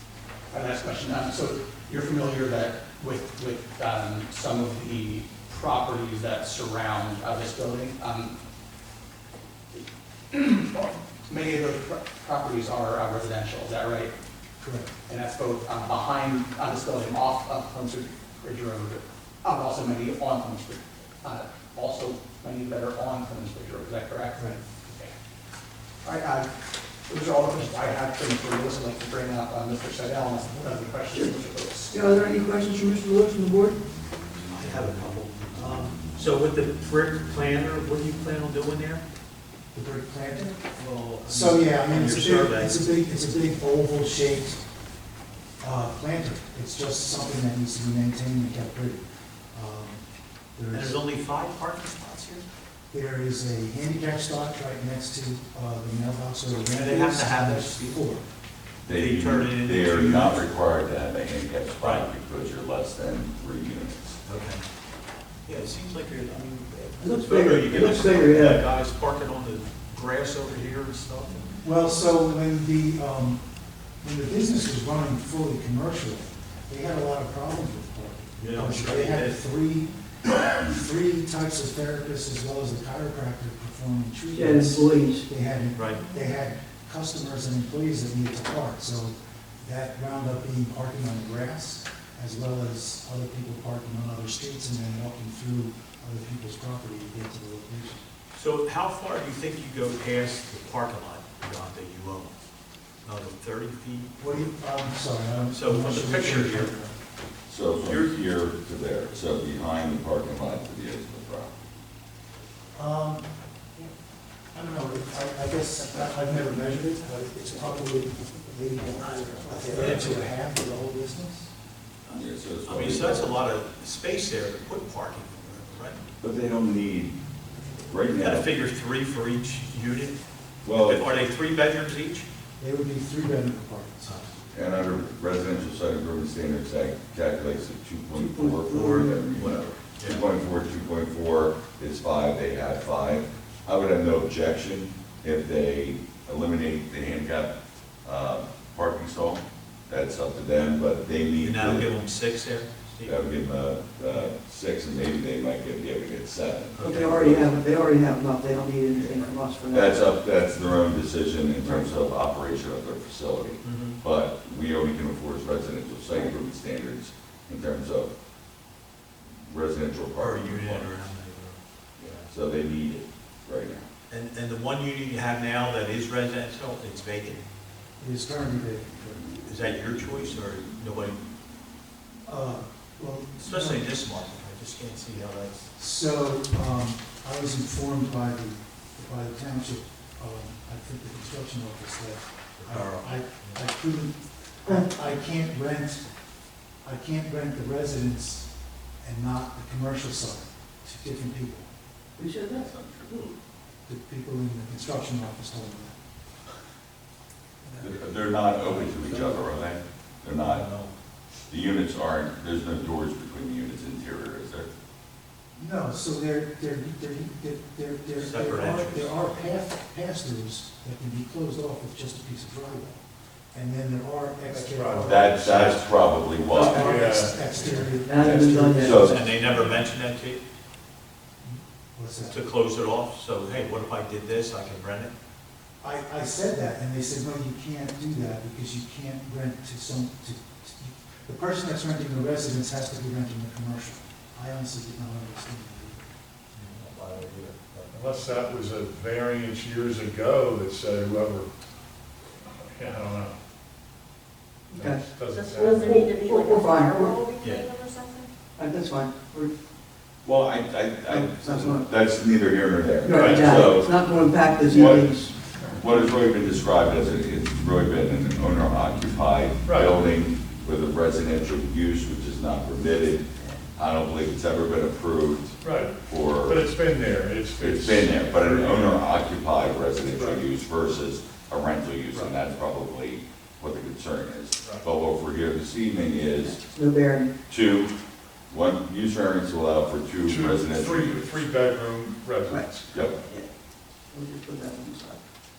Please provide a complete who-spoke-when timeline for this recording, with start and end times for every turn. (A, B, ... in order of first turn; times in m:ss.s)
0:00.5-0:08.3 A
0:10.3-0:14.1 A
0:14.6-0:14.9 B
0:15.1-0:25.1 A
0:26.0-0:26.5 A
0:27.1-0:31.9 A
0:31.1-0:33.8 C
0:34.5-0:39.0 D
0:39.7-0:40.6 B
0:40.8-0:43.0 D
0:41.2-0:44.6 B
0:45.6-0:50.0 B
0:50.5-0:51.0 B
0:50.7-0:52.4 D
0:52.9-0:58.2 B
0:56.7-0:57.9 D
0:58.8-1:04.1 E
0:58.9-1:00.5 D
1:01.8-1:02.1 D
1:04.3-1:04.6 D
1:05.4-1:11.5 D
1:07.0-1:08.6 C
1:11.6-1:13.4 B
1:14.0-1:38.0 B
1:18.4-1:19.4 D
1:24.3-1:25.2 C
1:25.7-1:26.0 D
1:38.3-1:42.3 D
1:43.0-1:44.5 D
1:44.2-1:47.0 B
1:45.5-1:46.7 D
1:47.5-1:51.6 E
1:52.8-1:53.9 B
1:54.5-2:01.5 B
1:59.7-2:00.2 D
2:02.0-2:06.0 D
2:02.1-2:03.3 E
2:06.2-2:07.2 E
2:07.9-2:08.5 E
2:08.1-2:12.3 D
2:10.6-2:11.0 E
2:12.6-2:14.2 B
2:14.5-2:27.5 E
2:18.1-2:19.2 C
2:18.7-2:20.2 D
2:28.0-2:31.9 E
2:31.4-2:33.2 D
2:33.0-2:37.6 E
2:36.7-2:37.5 D
2:36.8-2:40.1 C
2:38.9-2:48.1 E
2:41.6-2:41.9 C
2:43.6-2:44.0 D
2:49.2-2:51.0 E
2:50.2-2:52.3 D
2:52.0-2:53.9 E
2:54.1-2:57.4 D
2:58.0-2:59.3 B
2:59.4-3:01.2 D
3:02.2-3:03.9 B
3:03.4-3:05.7 D
3:05.8-3:16.0 B
3:12.6-3:13.6 D
3:16.8-3:21.7 B
3:22.2-3:22.7 C
3:23.8-3:26.0 B
3:27.8-3:30.7 E
3:28.5-3:29.4 D
3:30.4-3:30.9 D
3:31.5-3:34.7 E
3:35.5-3:45.4 B
3:38.2-3:39.1 D
3:44.5-3:45.8 F
3:45.0-3:46.8 E
3:46.5-3:49.1 B
3:46.5-3:46.9 C
3:46.7-3:47.9 F
3:48.0-3:49.3 C
3:48.8-3:49.2 E
3:48.8-3:50.4 D
3:51.9-3:52.4 B
3:52.3-3:55.1 D
3:55.8-4:06.1 B
4:06.5-4:07.9 D
4:07.9-4:11.5 F
4:12.6-4:13.4 F
4:14.7-4:15.1 C
4:14.8-4:16.1 F
4:15.3-4:18.3 G
4:15.8-4:17.2 C
4:17.4-4:17.7 D
4:18.6-4:19.5 C
4:20.2-4:23.9 E
4:21.1-4:21.9 C
4:23.0-4:25.4 C
4:23.2-4:23.5 F
4:24.7-4:25.0 E
4:24.8-4:25.8 F
4:25.7-4:36.6 E
4:29.6-4:30.0 F
4:35.6-4:39.0 F
4:37.6-4:46.6 E
4:40.1-4:40.4 F
4:46.6-4:47.3 C
4:47.5-4:47.9 E
4:48.5-4:51.4 E
4:50.2-4:53.2 F
4:52.5-4:53.5 C
4:52.9-4:53.2 E
4:54.1-4:55.2 C